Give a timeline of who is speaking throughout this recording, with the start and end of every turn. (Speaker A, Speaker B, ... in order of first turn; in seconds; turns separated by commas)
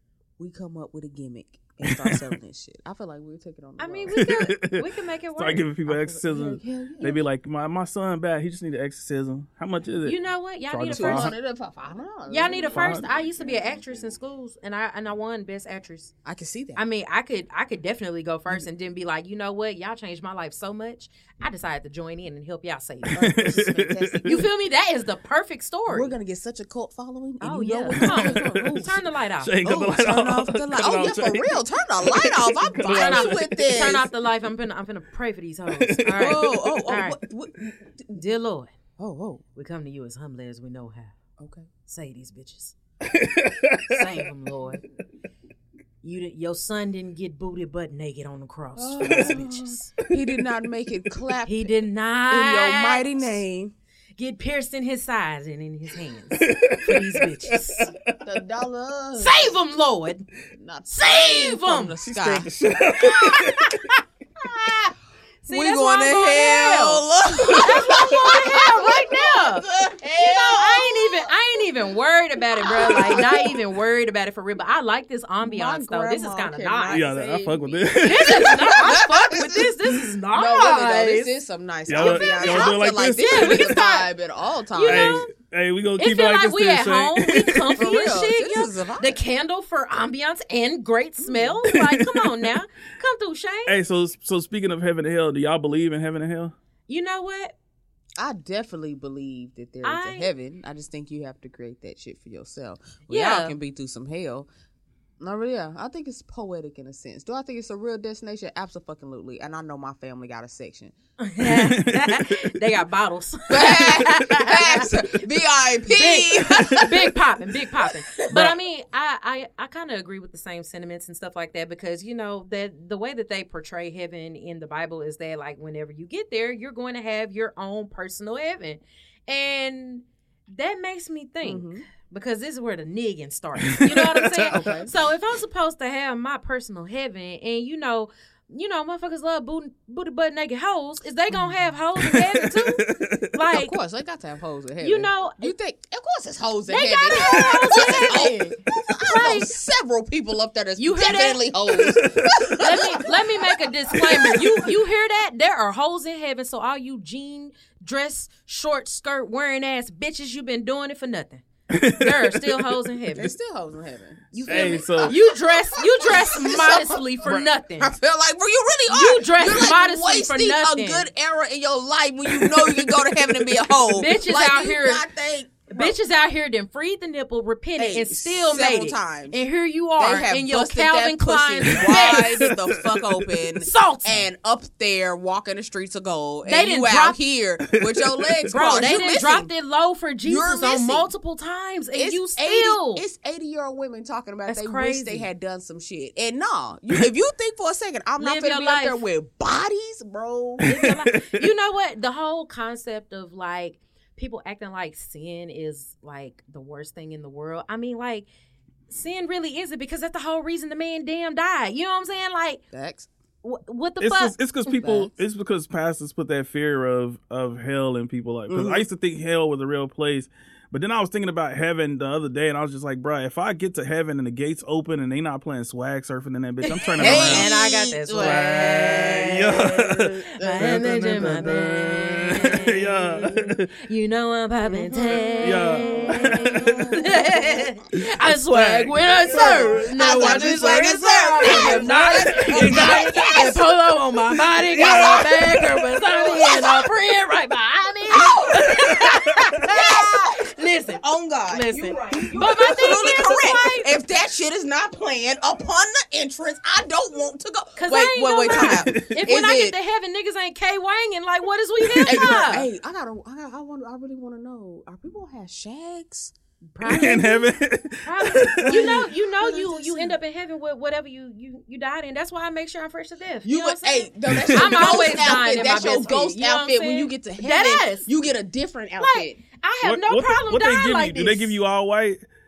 Speaker A: 0.4-4.2, Speaker B: 1.8-2.3, Speaker C: 3.8-5.7, Speaker B: 4.1-10.2, Speaker A: 5.9-7.2, Speaker C: 10.0-11.3, Speaker B: 10.7-11.3, Speaker A: 10.9-13.8, Speaker C: 12.3-16.1, Speaker B: 12.7-13.1, Speaker A: 16.2-16.8, Speaker C: 16.7-23.2, Speaker B: 23.1-24.4, Speaker A: 23.1-24.4, Speaker C: 24.2-26.1, Speaker A: 25.9-28.9, Speaker C: 27.4-29.5, Speaker B: 27.9-33.6, Speaker A: 29.6-34.1, Speaker C: 32.9-37.2, Speaker B: 35.7-36.3, Speaker A: 36.1-38.2, Speaker C: 38.1-38.7, Speaker A: 39.0-39.4, Speaker C: 39.5-41.1, Speaker A: 41.4-41.7, Speaker C: 41.9-42.7, Speaker B: 43.0-44.0, Speaker C: 43.9-44.8, Speaker C: 46.0-49.9, Speaker A: 48.8-51.7, Speaker B: 49.0-49.4, Speaker C: 51.4-53.2, Speaker A: 52.3-53.7, Speaker C: 54.2-57.9, Speaker B: 56.3-58.2, Speaker A: 58.2-59.5, Speaker C: 59.2-60.2, Speaker A: 60.5-63.5, Speaker C: 60.9-62.0, Speaker B: 62.0-64.0, Speaker A: 64.4-64.9, Speaker C: 65.4-77.1, Speaker A: 65.5-71.3, Speaker A: 72.6-73.6, Speaker A: 75.4-79.8, Speaker B: 76.9-78.9, Speaker C: 78.0-81.3, Speaker A: 80.3-85.2, Speaker B: 81.9-83.8, Speaker C: 81.9-84.1, Speaker C: 84.7-85.3, Speaker B: 84.8-87.8, Speaker C: 86.0-93.8, Speaker A: 87.8-89.2, Speaker A: 91.2-91.6, Speaker B: 91.7-92.5, Speaker B: 93.7-96.5, Speaker C: 96.9-97.5, Speaker A: 98.2-104.5, Speaker C: 99.8-100.3, Speaker C: 103.1-103.5, Speaker A: 105.2-110.9, Speaker C: 111.2-115.2, Speaker B: 111.4-112.5, Speaker A: 113.5-117.2, Speaker C: 115.8-143.7, Speaker A: 117.8-118.5, Speaker B: 118.3-118.5, Speaker A: 131.4-131.8, Speaker B: 133.7-134.6, Speaker A: 134.5-134.9, Speaker B: 142.0-143.3, Speaker A: 143.5-154.5, Speaker C: 144.8-145.5, Speaker C: 146.7-149.5, Speaker B: 147.2-148.2, Speaker C: 150.8-151.5, Speaker B: 151.7-152.5, Speaker C: 152.6-163.3, Speaker B: 154.1-154.4, Speaker B: 161.7-162.8, Speaker A: 163.1-167.2, Speaker C: 164.3-167.9, Speaker B: 164.5-165.1, Speaker A: 167.8-175.9, Speaker C: 168.9-171.1, Speaker B: 172.4-173.0, Speaker C: 173.9-175.0, Speaker C: 175.7-182.5, Speaker A: 177.8-179.3, Speaker A: 180.0-189.5, Speaker B: 181.8-183.3, Speaker C: 183.6-184.2, Speaker C: 186.4-187.2, Speaker B: 187.7-188.5, Speaker C: 188.5-193.0, Speaker A: 190.2-191.1, Speaker A: 191.9-200.7, Speaker C: 194.5-195.3, Speaker C: 198.2-199.0, Speaker B: 200.6-201.4, Speaker C: 200.6-208.3, Speaker C: 208.9-212.6, Speaker A: 212.7-213.1, Speaker C: 213.4-214.3, Speaker B: 214.0-227.5, Speaker A: 214.8-215.1, Speaker A: 218.5-218.8, Speaker C: 226.7-229.2, Speaker A: 227.0-231.6, Speaker B: 228.1-233.7, Speaker C: 230.4-253.9, Speaker A: 234.7-237.6, Speaker B: 235.4-237.1, Speaker B: 237.9-243.3, Speaker A: 239.2-243.6, Speaker B: 244.7-246.2, Speaker A: 244.7-245.5, Speaker A: 246.0-246.9, Speaker A: 248.1-249.1, Speaker B: 248.7-249.7, Speaker A: 249.6-259.8, Speaker B: 252.8-253.3, Speaker C: 257.8-262.7, Speaker B: 258.5-259.2, Speaker B: 261.8-262.5, Speaker A: 262.0-266.3, Speaker C: 266.7-267.5, Speaker B: 266.8-269.0, Speaker C: 268.0-278.1, Speaker A: 268.6-270.2, Speaker A: 273.4-279.4, Speaker B: 274.3-275.0, Speaker C: 279.0-281.6, Speaker B: 279.8-282.2